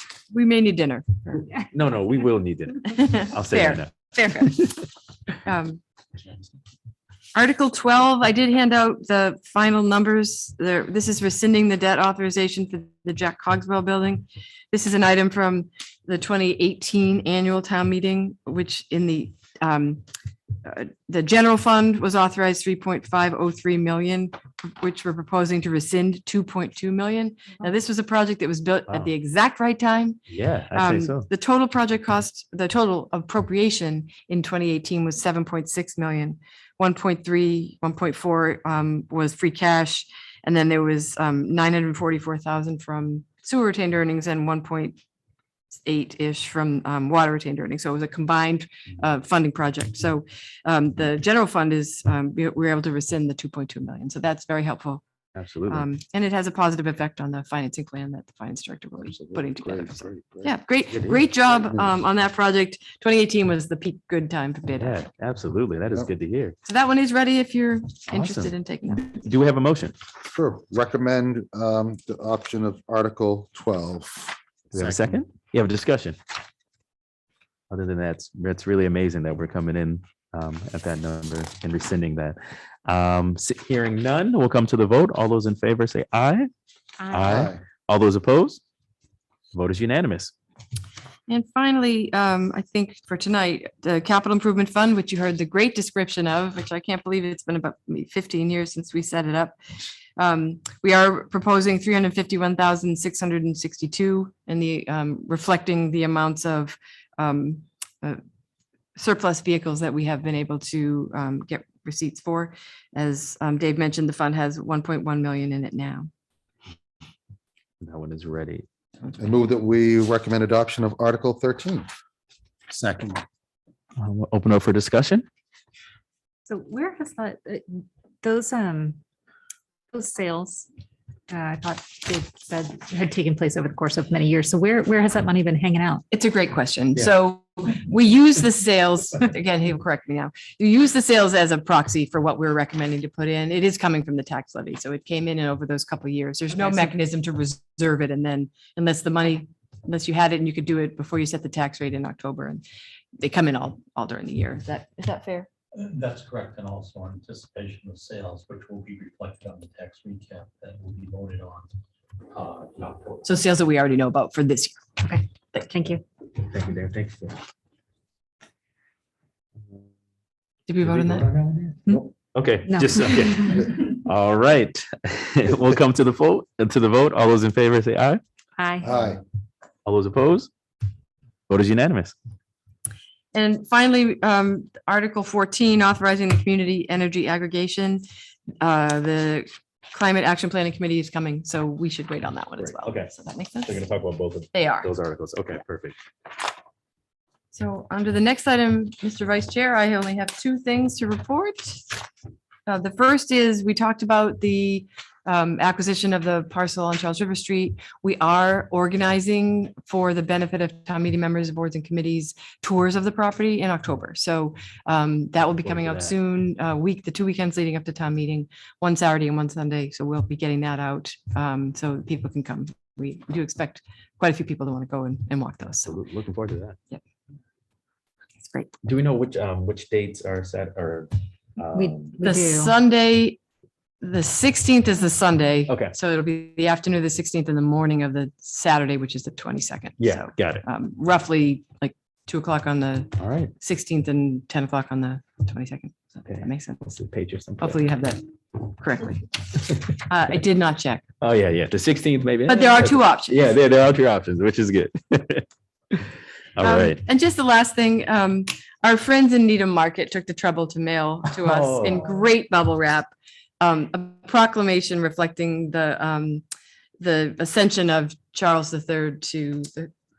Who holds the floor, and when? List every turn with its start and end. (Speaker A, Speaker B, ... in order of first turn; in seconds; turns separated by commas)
Speaker A: 0.3-1.5, Speaker B: 1.6-4.6, Speaker A: 2.9-4.6, Speaker A: 5.5-5.8, Speaker A: 7.3-20.0, Speaker A: 20.6-45.0, Speaker B: 30.3-31.3, Speaker A: 45.8-55.0, Speaker B: 55.4-55.9, Speaker A: 55.7-65.0, Speaker C: 59.1-60.5, Speaker B: 60.9-61.2, Speaker C: 61.5-61.9, Speaker B: 64.8-66.6, Speaker A: 66.7-69.1, Speaker B: 68.1-70.0, Speaker C: 70.3-75.2, Speaker B: 74.7-76.2, Speaker B: 77.7-86.5, Speaker B: 87.1-88.6, Speaker C: 87.3-87.6, Speaker B: 89.5-90.3, Speaker A: 91.3-99.6, Speaker A: 100.2-108.2, Speaker A: 109.0-116.1, Speaker B: 117.8-118.7, Speaker C: 119.2-121.9, Speaker C: 122.7-123.2, Speaker B: 124.0-125.3, Speaker D: 126.5-129.0, Speaker D: 129.9-130.7, Speaker D: 131.3-136.0, Speaker A: 136.1-152.6, Speaker D: 146.6-146.9, Speaker A: 153.2-155.5, Speaker E: 155.7-161.7, Speaker E: 162.3-163.2, Speaker A: 163.2-164.9, Speaker D: 165.0-166.0, Speaker B: 166.4-167.4, Speaker A: 170.7-171.3, Speaker B: 170.8-178.2, Speaker D: 172.7-173.6, Speaker D: 178.6-178.9, Speaker C: 178.8-179.2, Speaker B: 179.8-180.5, Speaker B: 181.5-182.2, Speaker A: 183.3-188.0, Speaker A: 188.6-193.9, Speaker B: 192.6-193.1, Speaker B: 193.7-196.0, Speaker A: 194.5-194.9, Speaker A: 197.5-202.0, Speaker A: 202.7-225.9, Speaker B: 215.6-216.1, Speaker B: 225.9-226.8, Speaker A: 228.4-228.7, Speaker B: 228.8-232.2, Speaker D: 231.7-232.8, Speaker A: 232.2-233.4, Speaker A: 234.0-246.8, Speaker B: 235.7-235.9, Speaker B: 240.0-240.7, Speaker B: 243.2-243.5, Speaker B: 246.2-247.8, Speaker A: 247.6-249.3, Speaker A: 249.9-251.0, Speaker B: 251.2-255.5, Speaker A: 252.5-253.4, Speaker B: 256.6-257.0, Speaker A: 256.6-263.1, Speaker B: 261.3-262.2, Speaker A: 263.6-266.4, Speaker A: 267.0-269.9